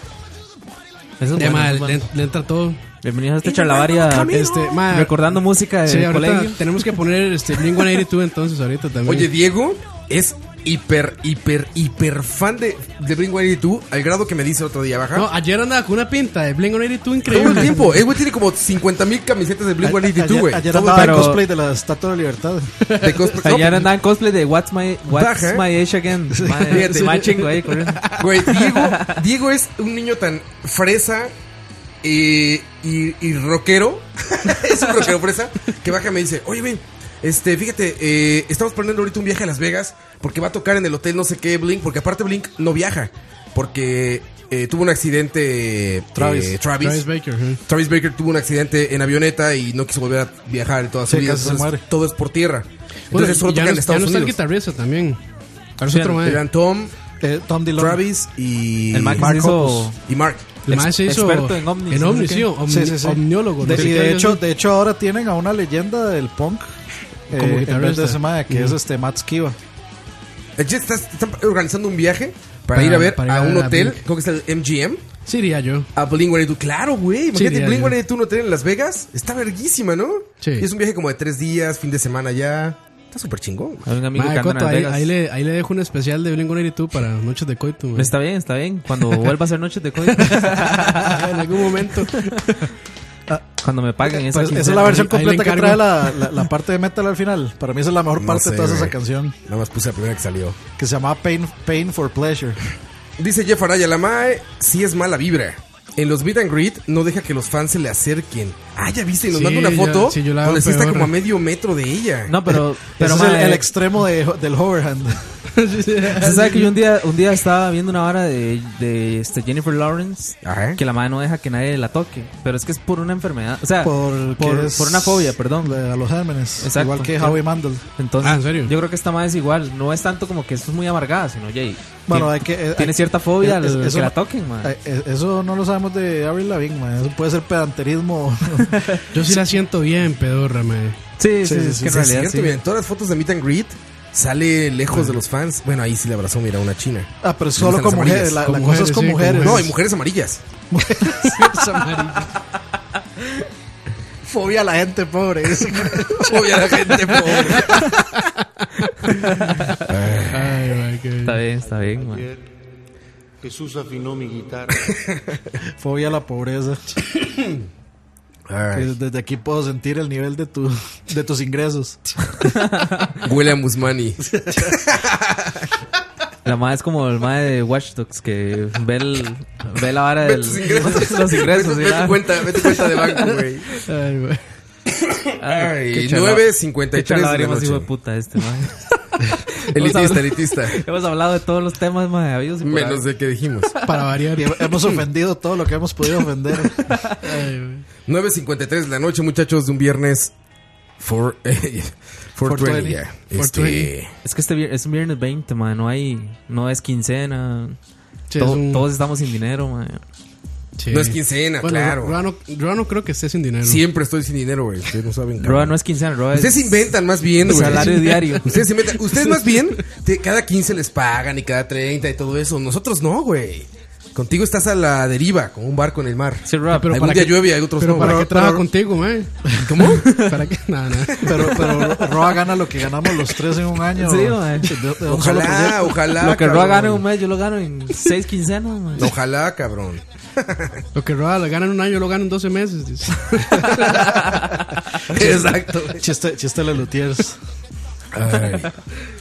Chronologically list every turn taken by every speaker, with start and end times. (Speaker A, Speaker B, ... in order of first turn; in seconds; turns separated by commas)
Speaker A: 1.2-2.1, Speaker B: 1.4-2.8, Speaker A: 3.0-6.6, Speaker C: 3.4-4.8, Speaker B: 4.3-9.3, Speaker C: 9.1-15.3, Speaker B: 15.1-18.0, Speaker C: 17.3-21.0, Speaker D: 19.8-22.7, Speaker A: 20.7-21.4, Speaker B: 22.9-23.2, Speaker C: 23.0-23.9, Speaker A: 23.4-29.1, Speaker C: 25.1-25.7, Speaker D: 26.3-26.8, Speaker C: 26.7-27.4, Speaker B: 26.9-27.4, Speaker C: 28.2-31.3, Speaker C: 32.0-47.1, Speaker D: 46.1-46.6, Speaker B: 46.8-47.6, Speaker C: 47.7-54.4, Speaker D: 51.1-51.8, Speaker B: 53.1-55.2, Speaker B: 55.8-56.5, Speaker A: 55.9-56.2, Speaker C: 56.2-56.9, Speaker D: 57.2-58.0, Speaker C: 57.8-59.3, Speaker A: 58.9-60.0, Speaker D: 59.2-59.9, Speaker C: 60.1-60.7, Speaker B: 60.7-64.4, Speaker A: 60.7-62.5, Speaker D: 62.7-66.7, Speaker D: 67.3-69.6, Speaker B: 67.3-68.8, Speaker C: 70.6-75.0, Speaker B: 72.7-74.0, Speaker B: 75.3-75.9, Speaker C: 76.0-83.9, Speaker B: 77.3-78.0, Speaker B: 80.4-80.7, Speaker A: 83.9-85.1, Speaker B: 84.2-88.1, Speaker A: 88.0-91.2, Speaker B: 90.2-92.6, Speaker A: 93.6-95.2, Speaker D: 94.0-99.4, Speaker B: 94.9-96.3, Speaker C: 98.2-99.0, Speaker C: 99.5-100.6, Speaker D: 100.8-102.6, Speaker C: 103.2-112.5, Speaker B: 109.3-111.1, Speaker A: 112.3-113.7, Speaker D: 113.0-115.4, Speaker B: 115.6-116.7, Speaker A: 116.2-125.8, Speaker C: 120.4-120.8, Speaker D: 123.8-127.8, Speaker A: 126.6-127.4, Speaker A: 128.0-134.7, Speaker B: 128.2-128.7, Speaker D: 132.1-139.4, Speaker A: 138.7-139.1, Speaker B: 139.1-141.0, Speaker A: 141.2-142.6, Speaker D: 141.4-142.0, Speaker C: 141.9-148.4, Speaker D: 147.2-149.7, Speaker B: 148.4-149.7, Speaker C: 149.4-150.4, Speaker D: 150.7-152.1, Speaker B: 151.3-152.3, Speaker D: 154.3-156.8, Speaker C: 156.2-157.9, Speaker A: 159.2-159.8, Speaker C: 159.9-160.8, Speaker B: 160.3-161.4, Speaker A: 161.2-162.2, Speaker E: 161.6-162.6, Speaker E: 163.4-164.9, Speaker D: 165.8-166.8, Speaker C: 168.5-168.9, Speaker D: 168.7-172.0, Speaker A: 172.4-173.2, Speaker C: 173.2-175.6, Speaker A: 176.4-182.4, Speaker C: 180.2-183.8, Speaker B: 183.7-184.4, Speaker A: 185.4-189.2, Speaker C: 185.4-187.9, Speaker C: 189.7-190.8, Speaker A: 189.7-193.0, Speaker C: 192.6-193.7, Speaker B: 193.8-194.8, Speaker D: 194.4-196.8, Speaker A: 196.9-197.2, Speaker B: 197.2-197.8, Speaker C: 198.1-200.3, Speaker C: 201.0-204.1, Speaker D: 202.4-203.0, Speaker B: 203.4-203.9, Speaker A: 204.2-207.8, Speaker B: 208.3-208.9, Speaker A: 208.4-210.0, Speaker B: 210.8-213.8, Speaker C: 210.9-212.2, Speaker C: 213.6-215.8, Speaker A: 215.4-216.8, Speaker C: 216.3-228.3, Speaker A: 217.4-218.5, Speaker B: 217.4-219.6, Speaker A: 226.4-227.1, Speaker B: 226.8-229.3, Speaker D: 228.0-228.7, Speaker C: 229.6-230.1, Speaker A: 230.0-230.3, Speaker B: 230.1-231.4, Speaker D: 231.2-236.0, Speaker A: 233.9-234.8, Speaker C: 235.1-237.0, Speaker A: 236.2-239.1, Speaker C: 239.0-240.8, Speaker B: 240.9-244.0, Speaker A: 243.7-244.6, Speaker C: 245.1-246.0, Speaker D: 246.0-247.4, Speaker C: 248.1-248.8